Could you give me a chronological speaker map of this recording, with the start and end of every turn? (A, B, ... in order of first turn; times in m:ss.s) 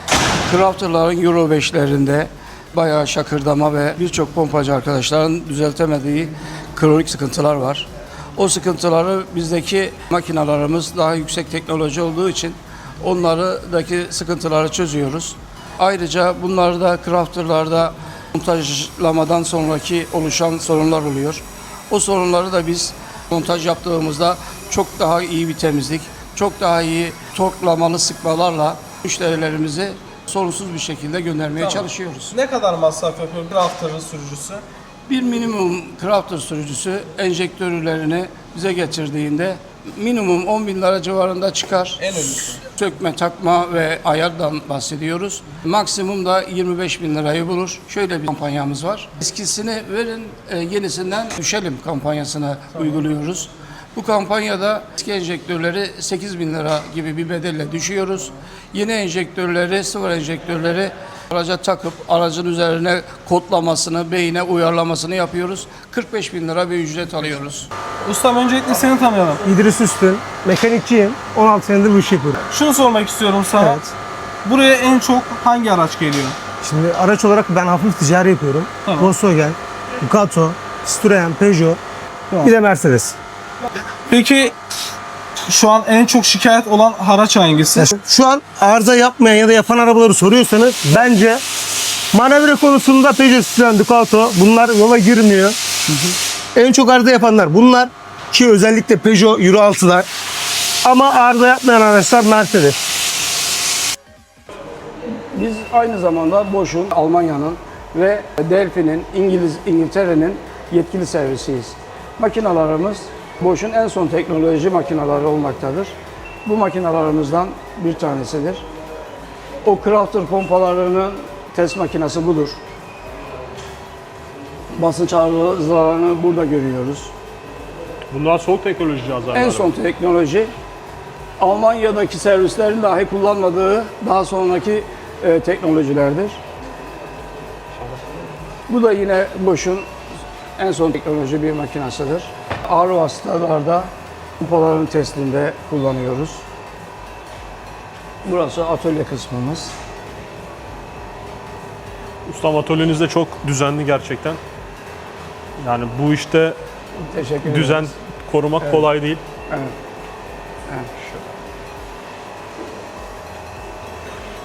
0:00.5-0:32.4 A
0:31.6-0:34.6 B
0:35.1-1:07.7 A
0:42.0-0:42.6 B
1:08.0-1:09.4 B
1:09.4-1:12.4 C
1:12.5-1:13.8 B
1:14.4-1:16.4 B
1:16.6-1:21.8 C
1:18.9-1:19.1 B
1:22.4-1:23.2 C
1:24.1-1:24.5 B
1:25.5-1:27.9 B
1:27.8-1:31.4 C
1:32.1-1:35.6 C
1:36.6-1:40.1 C
1:40.8-1:42.8 C
1:45.3-1:58.7 A
1:59.6-2:02.6 A
2:04.7-2:07.1 A
2:08.1-2:09.7 D
2:09.3-2:10.5 A
2:11.4-2:16.4 A
2:18.7-2:19.9 A
2:20.6-2:26.4 A
2:28.2-2:29.7 A
2:32.3-2:34.4 D
2:35.6-2:36.6 D
2:37.0-2:37.9 A
2:37.4-2:39.2 D
2:38.6-2:38.9 A
2:40.7-2:41.2 A